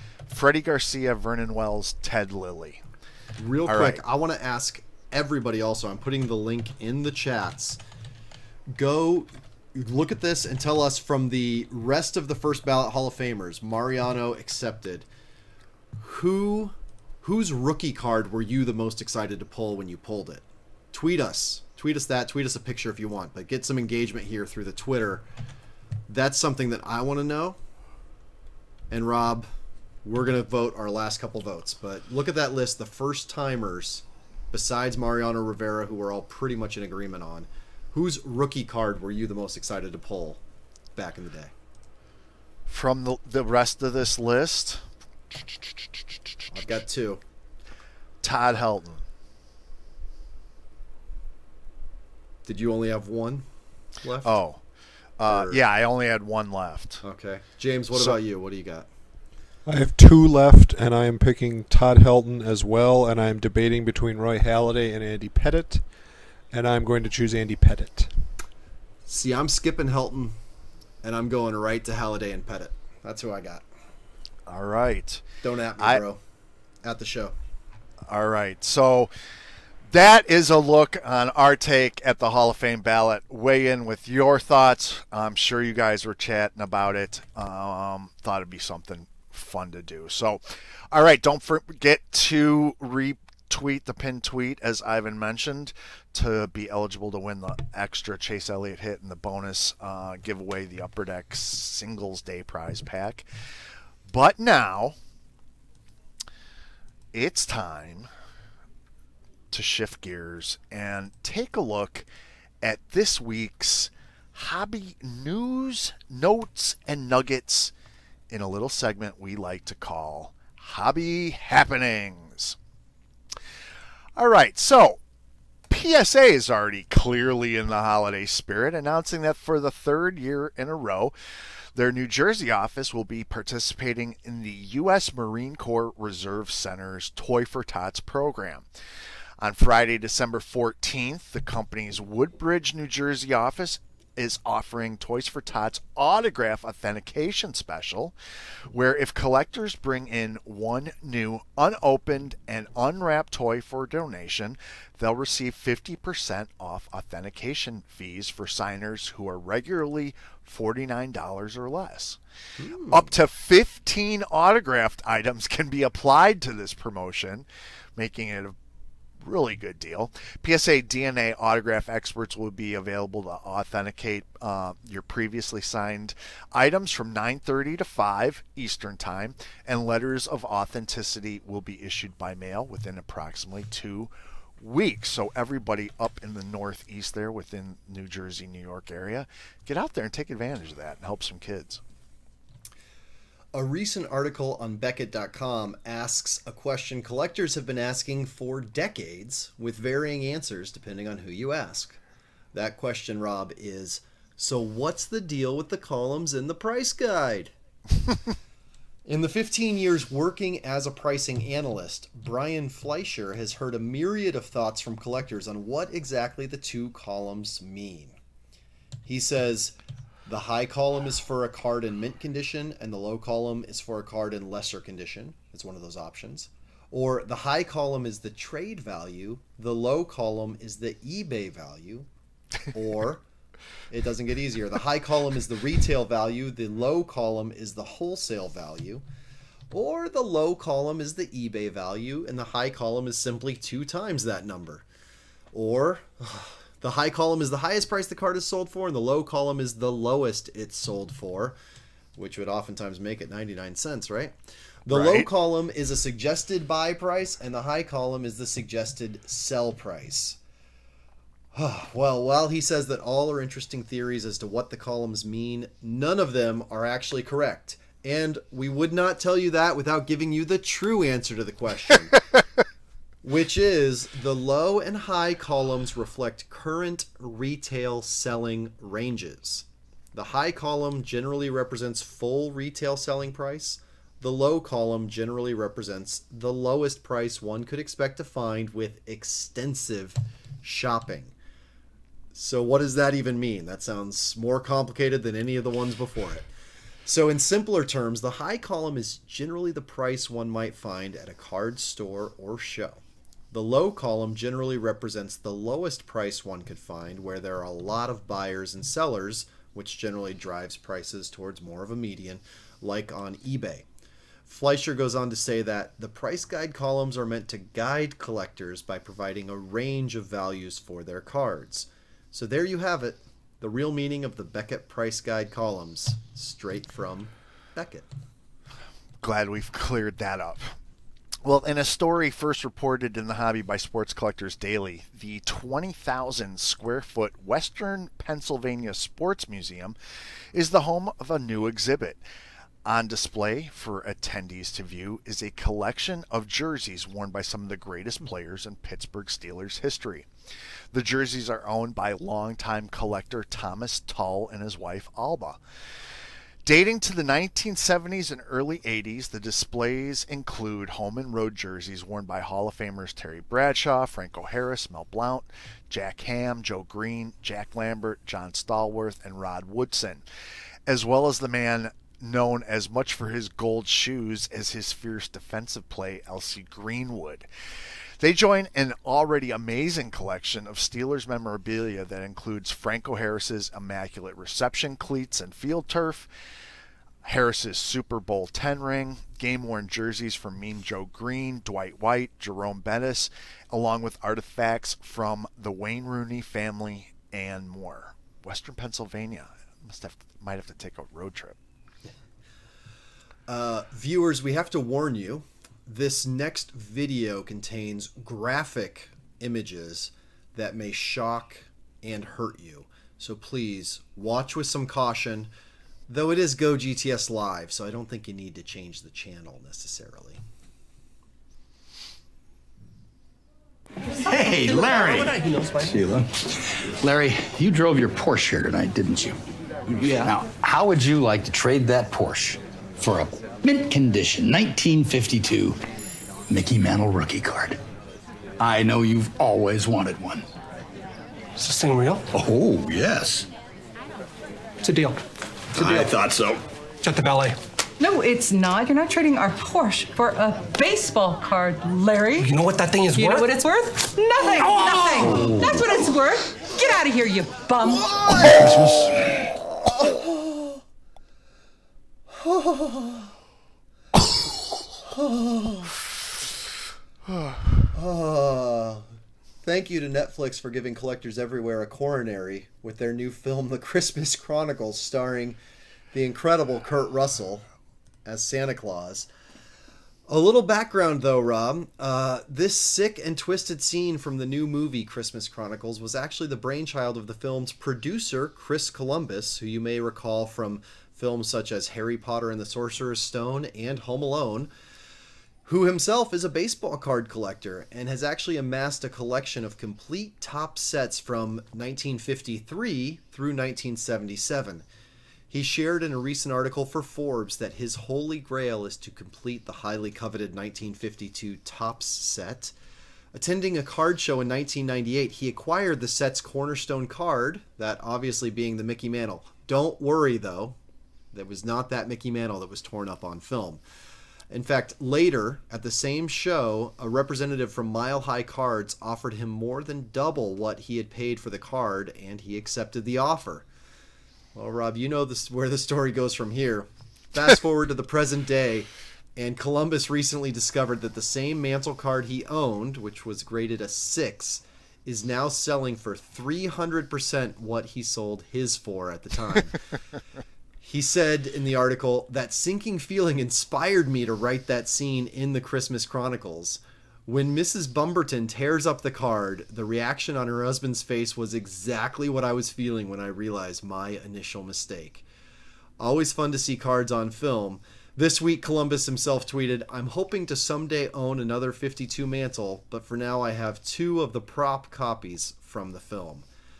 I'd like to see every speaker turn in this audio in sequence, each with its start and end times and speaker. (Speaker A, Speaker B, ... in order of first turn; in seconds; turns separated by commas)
Speaker A: 0.3-2.8, Speaker B: 3.4-7.8, Speaker A: 3.6-4.0, Speaker B: 8.7-15.1, Speaker B: 16.0-25.2, Speaker B: 26.1-27.6, Speaker B: 28.9-29.5, Speaker B: 30.0-40.4, Speaker B: 40.9-41.5, Speaker A: 42.7-44.9, Speaker B: 46.5-47.2, Speaker A: 48.2-49.0, Speaker B: 52.5-53.4, Speaker B: 54.0-54.4, Speaker A: 54.2-54.6, Speaker A: 55.2-57.0, Speaker B: 55.2-55.6, Speaker B: 57.0-58.9, Speaker C: 59.6-65.8, Speaker C: 66.5-68.1, Speaker B: 69.1-70.3, Speaker B: 71.0-73.6, Speaker A: 74.5-75.2, Speaker B: 75.4-76.2, Speaker B: 76.8-77.3, Speaker A: 78.0-79.1, Speaker A: 79.9-103.2, Speaker A: 104.1-105.0, Speaker A: 107.1-108.1, Speaker A: 109.5-112.1, Speaker A: 112.6-117.7, Speaker A: 118.3-122.6, Speaker A: 124.2-125.0, Speaker A: 125.7-131.1, Speaker A: 131.7-138.7, Speaker A: 139.4-148.1, Speaker A: 148.7-162.2, Speaker B: 162.6-163.1, Speaker A: 162.9-168.6, Speaker A: 169.2-191.8, Speaker B: 193.5-202.0, Speaker B: 202.5-207.5, Speaker B: 209.1-218.2, Speaker B: 219.1-219.7, Speaker B: 220.2-232.1, Speaker B: 232.7-233.2, Speaker B: 233.9-239.0, Speaker B: 239.7-244.8, Speaker B: 245.5-251.6, Speaker B: 252.2-260.4, Speaker A: 254.9-255.3, Speaker B: 261.5-272.2, Speaker B: 273.2-291.3, Speaker B: 292.3-296.5, Speaker B: 297.1-313.8, Speaker B: 314.5-328.1, Speaker A: 329.2-330.8, Speaker A: 331.4-340.0, Speaker A: 340.5-342.2, Speaker A: 342.8-350.3, Speaker A: 350.9-355.6, Speaker A: 356.6-370.2, Speaker A: 370.9-377.5, Speaker A: 378.2-386.3, Speaker A: 387.2-401.6, Speaker B: 403.5-415.5, Speaker B: 416.1-420.4, Speaker D: 424.2-426.0, Speaker E: 424.6-425.3, Speaker E: 425.9-426.3, Speaker E: 427.0-429.4, Speaker E: 429.9-435.8, Speaker D: 430.0-430.4, Speaker E: 436.5-437.8, Speaker E: 438.6-440.4, Speaker D: 441.6-442.3, Speaker E: 442.3-443.5, Speaker D: 444.8-445.2, Speaker D: 445.7-446.3, Speaker E: 445.8-446.6, Speaker D: 447.0-447.6, Speaker F: 448.0-452.5, Speaker D: 452.4-453.6, Speaker F: 453.1-458.2, Speaker D: 454.7-455.6, Speaker E: 455.4-455.7, Speaker D: 458.2-459.2, Speaker E: 458.4-459.1, Speaker B: 459.9-460.8, Speaker B: 462.3-463.3, Speaker B: 465.1-465.9, Speaker B: 467.9-469.1, Speaker B: 469.6-475.6, Speaker B: 476.1-477.6, Speaker B: 478.2-479.3, Speaker B: 480.3-494.7, Speaker B: 495.6-504.8, Speaker B: 505.5-512.7, Speaker B: 513.3-520.8, Speaker B: 521.3-523.8, Speaker B: 524.5-533.6, Speaker B: 534.5-549.8, Speaker B: 550.8-565.2, Speaker B: 566.0-576.5